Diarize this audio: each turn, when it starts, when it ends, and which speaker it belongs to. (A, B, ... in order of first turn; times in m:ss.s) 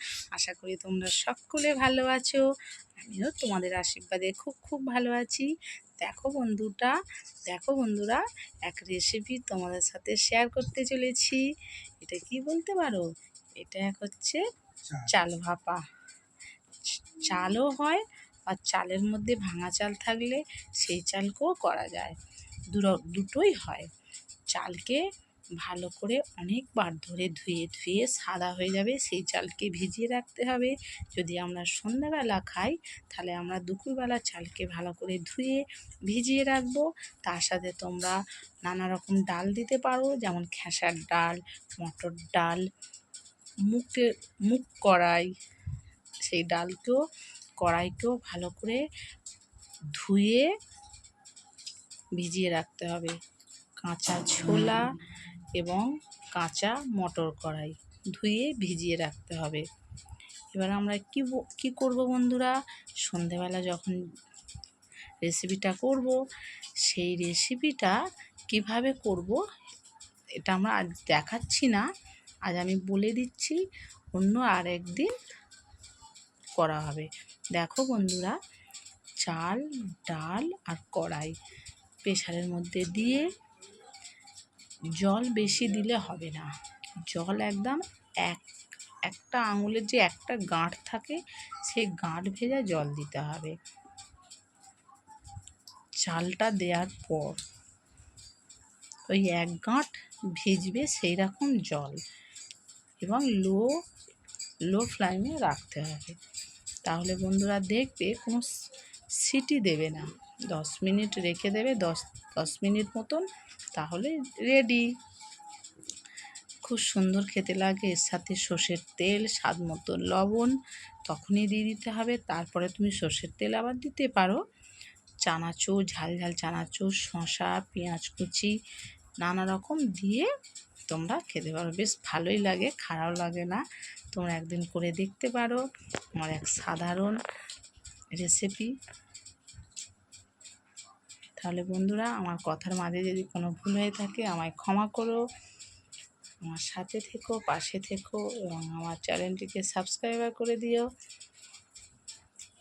0:00.3-0:02.4 A
0:03.0-0:11.4 A
0:12.0-0:13.0 A
0:13.6-0:14.4 A
0:15.0-0:15.8 A
0:16.9-0:22.2 A
0:22.7-0:23.9 A
0:24.5-0:25.0 A
0:25.6-0:42.6 A
0:43.6-0:45.3 A
0:46.2-0:47.0 A
0:47.6-0:48.8 A
0:49.9-0:50.5 A
0:52.2-0:53.1 A
0:53.8-0:54.8 A
0:55.5-0:59.6 A
1:00.5-1:04.0 A
1:05.2-1:06.2 A
1:06.8-1:08.0 A
1:08.5-1:09.4 A
1:10.4-1:11.8 A
1:12.5-1:13.6 A
1:14.1-1:15.1 A
1:16.6-1:18.4 A
1:19.2-1:21.3 A
1:22.0-1:23.3 A
1:25.0-1:26.5 A
1:27.1-1:28.4 A
1:29.0-1:33.5 A
1:36.0-1:37.4 A
1:39.1-1:42.0 A
1:43.0-1:43.7 A
1:44.7-1:46.2 A
1:46.8-1:48.5 A
1:49.1-1:54.9 A
1:56.6-2:00.5 A
2:01.0-2:04.4 A
2:05.2-2:08.5 A
2:09.2-2:10.3 A
2:10.9-2:15.6 A
2:16.2-2:17.2 A
2:18.1-2:18.7 A
2:21.4-2:25.2 A
2:26.4-2:30.8 A